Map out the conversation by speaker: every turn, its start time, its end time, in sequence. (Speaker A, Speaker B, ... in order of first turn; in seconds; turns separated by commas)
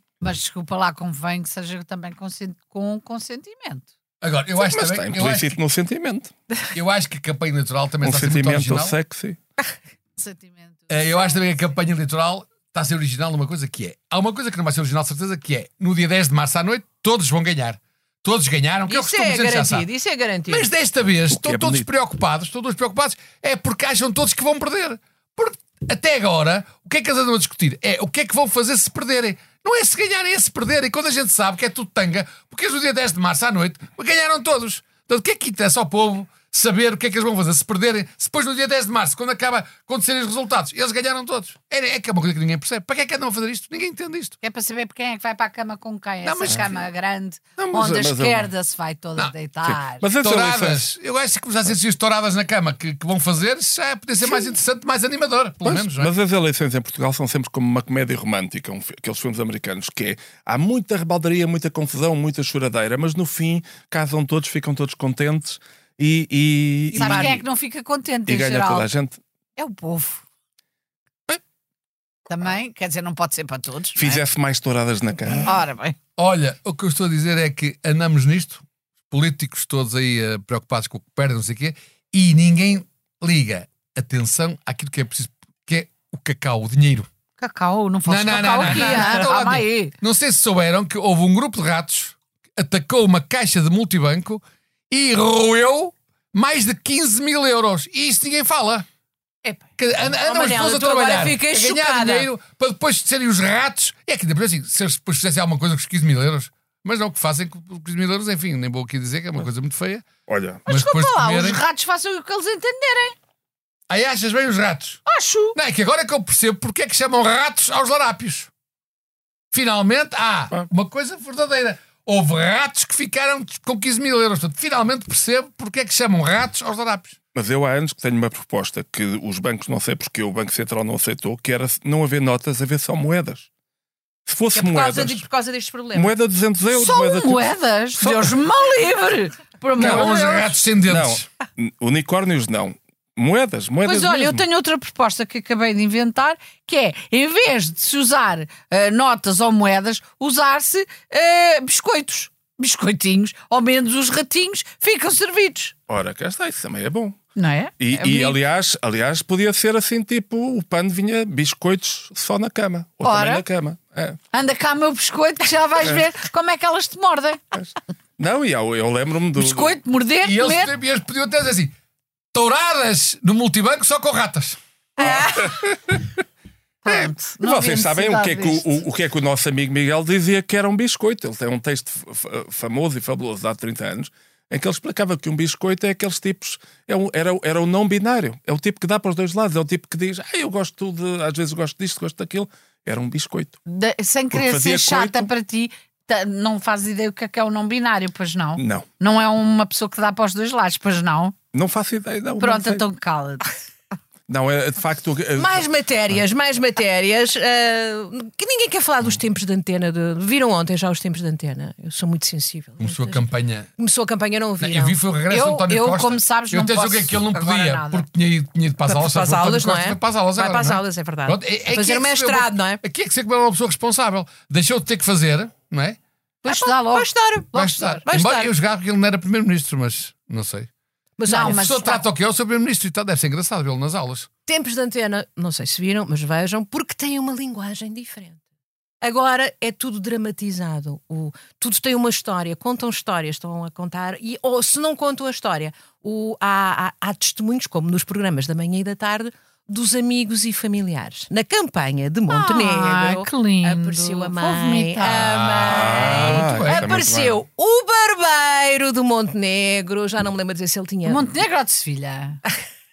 Speaker A: 0.2-3.9, Speaker B: 4.2-5.5, Speaker C: 4.6-6.3, Speaker B: 6.7-8.9, Speaker C: 8.0-9.4, Speaker A: 10.2-11.4, Speaker B: 10.9-19.9, Speaker D: 18.9-20.7, Speaker B: 20.5-44.4, Speaker C: 21.3-21.9, Speaker A: 44.4-50.0, Speaker B: 46.2-46.8, Speaker C: 47.6-48.5, Speaker C: 49.6-50.9, Speaker B: 50.2-56.1, Speaker C: 55.6-67.4, Speaker A: 66.9-68.9, Speaker D: 67.0-67.3, Speaker C: 68.3-69.2, Speaker A: 69.6-70.2, Speaker A: 72.3-74.2, Speaker C: 73.9-75.6, Speaker A: 75.4-76.0, Speaker B: 76.2-87.1, Speaker A: 87.4-89.9, Speaker B: 88.1-98.8, Speaker D: 88.6-89.2, Speaker D: 99.5-102.3, Speaker B: 99.8-110.1, Speaker C: 110.3-110.7, Speaker B: 110.7-111.6, Speaker A: 110.7-113.1, Speaker B: 113.9-115.0, Speaker A: 115.1-115.6, Speaker B: 115.5-118.5, Speaker B: 119.5-127.2, Speaker C: 127.3-133.5, Speaker C: 134.2-135.3, Speaker D: 134.5-136.1, Speaker C: 135.9-138.4, Speaker A: 136.7-140.6, Speaker B: 139.8-141.2, Speaker C: 139.8-140.2, Speaker C: 140.9-144.4, Speaker A: 143.8-155.7, Speaker C: 155.9-157.2, Speaker A: 157.4-158.4, Speaker C: 157.8-164.2, Speaker A: 163.0-163.4, Speaker A: 164.3-167.4, Speaker C: 167.5-169.8, Speaker A: 169.4-170.7, Speaker B: 170.2-171.7, Speaker B: 172.3-174.6, Speaker D: 175.0-175.5, Speaker C: 175.0-176.1, Speaker A: 176.8-178.7, Speaker C: 176.9-193.6, Speaker A: 193.7-201.3, Speaker C: 194.3-195.3, Speaker C: 198.6-198.9, Speaker C: 201.5-202.8, Speaker A: 202.4-203.5, Speaker C: 204.3-205.7, Speaker D: 205.4-213.2, Speaker B: 212.8-213.7, Speaker D: 213.8-215.0, Speaker B: 214.6-226.0, Speaker A: 215.3-218.1, Speaker D: 218.8-222.8, Speaker A: 226.4-227.1, Speaker D: 226.4-228.5, Speaker B: 227.5-230.7, Speaker D: 231.2-231.9, Speaker A: 231.2-232.0, Speaker B: 231.5-234.3, Speaker D: 234.5-238.4, Speaker D: 239.0-261.3, Speaker A: 252.3-255.3, Speaker B: 255.1-256.9, Speaker C: 255.6-257.4, Speaker A: 261.1-262.4